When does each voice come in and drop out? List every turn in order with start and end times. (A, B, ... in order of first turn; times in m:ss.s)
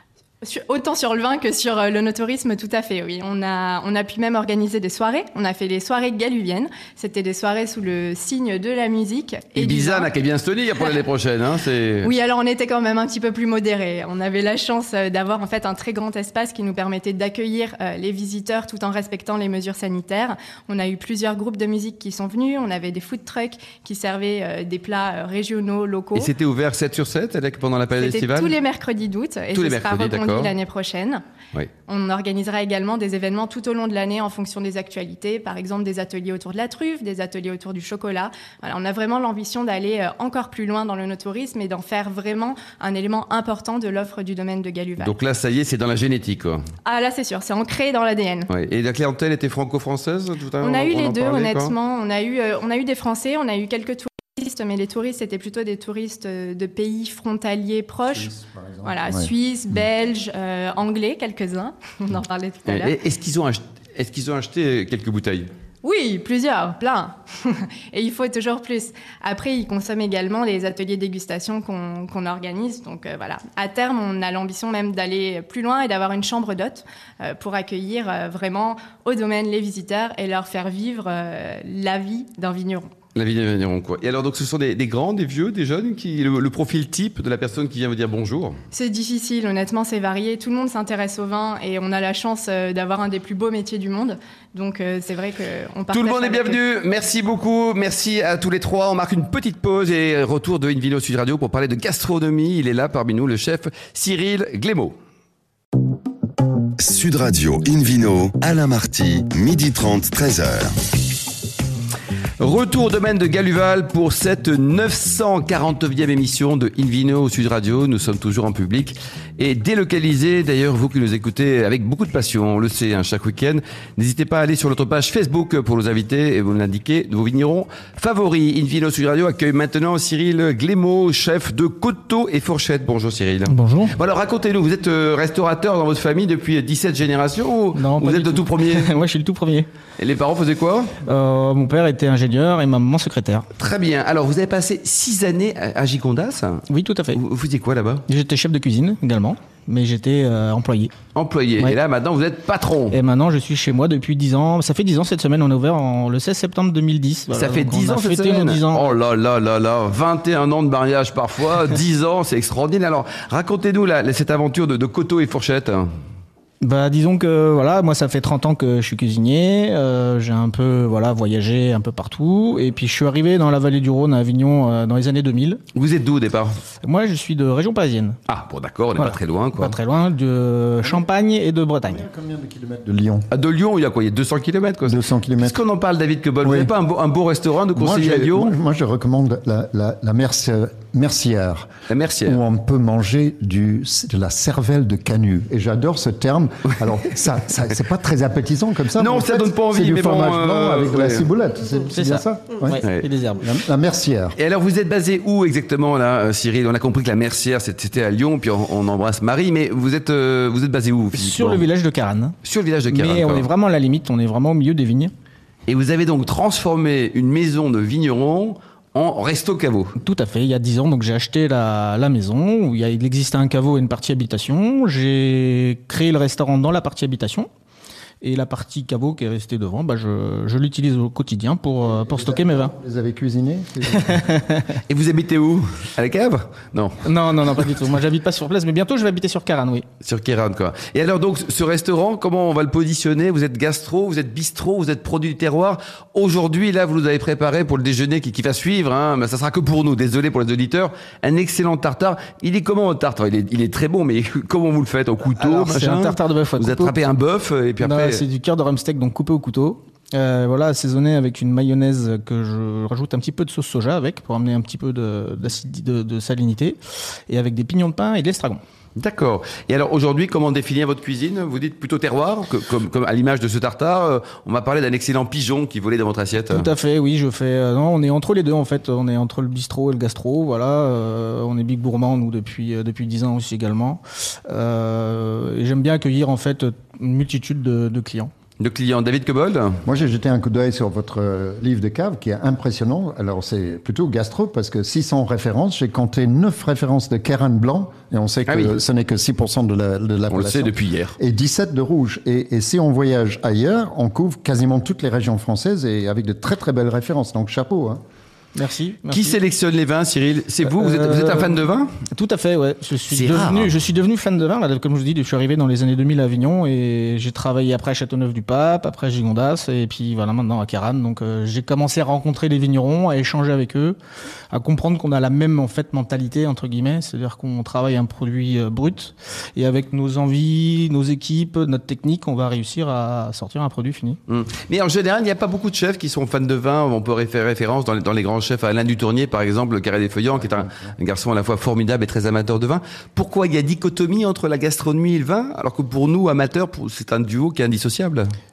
0:00.4-0:10.1 A
0:09.6-0:12.1 B
0:12.0-0:26.3 A
0:26.2-0:28.5 B
0:27.9-0:31.2 A
0:29.5-0:30.5 B
0:31.9-0:45.2 A
0:45.0-0:46.6 B
0:46.8-0:48.5 A
0:48.5-0:51.7 B
0:50.6-1:03.0 A
0:58.1-0:59.3 C
1:02.7-1:05.5 B
1:05.8-1:22.9 A
1:23.2-1:28.6 B
1:28.7-1:36.6 A
1:35.9-1:45.0 B
1:46.8-1:50.7 D
1:52.4-2:19.0 B
2:13.5-2:13.9 E
2:17.7-2:19.7 E
2:20.0-2:21.0 B
2:21.0-2:23.5 E
2:23.6-2:28.1 B
2:26.7-2:27.2 E
2:28.1-2:30.9 E
2:31.1-2:33.0 B
2:32.9-2:39.0 E
2:37.3-2:45.9 B
2:46.6-2:55.6 E
2:55.7-2:56.6 B
2:56.8-2:58.2 E
2:58.3-2:59.8 B
2:59.0-3:02.1 E
3:01.8-3:03.3 C
3:03.3-3:08.5 B
3:04.9-3:05.6 C
3:06.4-3:06.7 C
3:07.7-3:11.7 C
3:11.9-3:12.4 B
3:12.3-3:22.8 C
3:19.0-3:21.3 B
3:21.9-3:23.6 E
3:22.8-3:23.1 B
3:23.4-3:24.4 C
3:24.4-3:31.7 B
3:31.1-3:32.4 E
3:32.4-3:33.5 B
3:32.9-3:35.1 E
3:35.7-3:39.9 B
3:40.0-3:47.5 E
3:48.2-3:52.7 E
3:51.8-3:54.2 C
3:53.9-3:54.8 E
3:54.9-3:57.1 B
3:57.0-3:59.9 E
4:00.0-4:18.2 B
4:15.4-4:17.0 E
4:17.8-4:26.8 E
4:27.3-4:28.6 E
4:29.0-4:36.7 B
4:36.5-4:48.3 E
4:48.6-4:49.8 B
4:49.8-5:08.0 C
4:58.5-4:58.8 B
5:00.3-5:01.2 B
5:08.6-5:09.4 E
5:09.1-5:11.9 B
5:10.7-5:24.0 E
5:13.1-5:13.8 B
5:24.5-5:34.2 E
5:34.3-5:48.3 B
5:40.4-5:41.0 C